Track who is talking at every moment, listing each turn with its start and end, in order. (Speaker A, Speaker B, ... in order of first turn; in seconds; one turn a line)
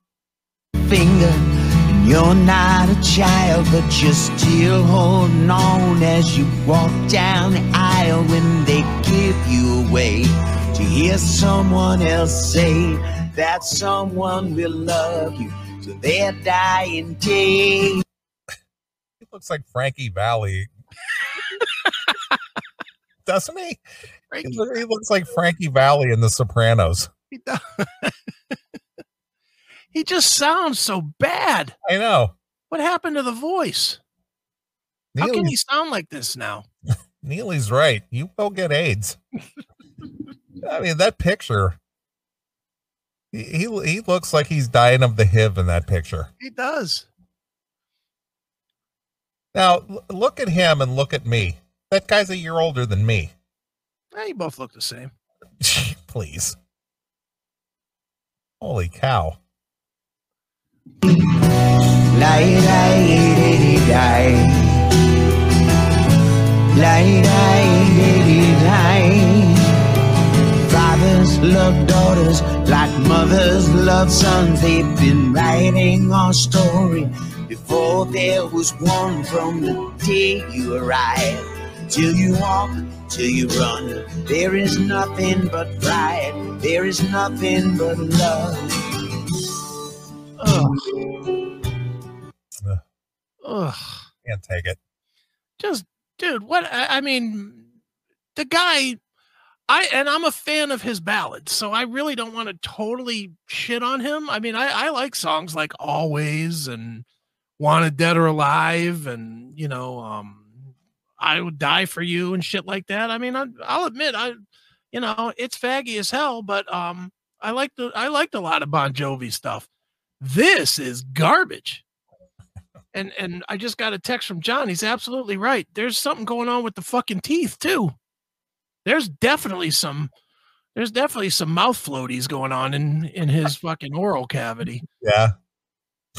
Speaker A: 0.8-18.0
Speaker B: 19.2-20.7
Speaker C: 21.5-22.3
Speaker B: 23.2-23.8
Speaker C: 24.3-24.7
Speaker B: 24.4-27.1
Speaker C: 27.3-28.6
Speaker C: 29.9-31.8
Speaker B: 31.9-32.4
Speaker C: 32.7-34.0
Speaker B: 35.1-35.5
Speaker C: 35.2-36.7
Speaker B: 37.2-39.2
Speaker B: 40.6-41.8
Speaker B: 43.3-46.3
Speaker C: 46.4-47.1
Speaker B: 49.5-53.3
Speaker C: 54.1-55.1
Speaker B: 55.6-56.6
Speaker B: 58.6-59.4
Speaker A: 61.0-61.6
Speaker A: 62.1-65.0
Speaker A: 66.7-69.7
Speaker A: 70.6-88.8
Speaker C: 90.4-90.9
Speaker A: 90.5-91.1
Speaker C: 93.4-94.0
Speaker B: 94.2-94.8
Speaker C: 95.6-97.7
Speaker C: 98.3-99.0
Speaker C: 99.7-107.0
Speaker C: 107.6-110.6
Speaker C: 111.2-114.4
Speaker C: 114.9-119.7
Speaker C: 120.2-121.8
Speaker C: 122.9-127.9
Speaker C: 128.8-130.1
Speaker C: 130.8-134.8
Speaker B: 135.0-135.3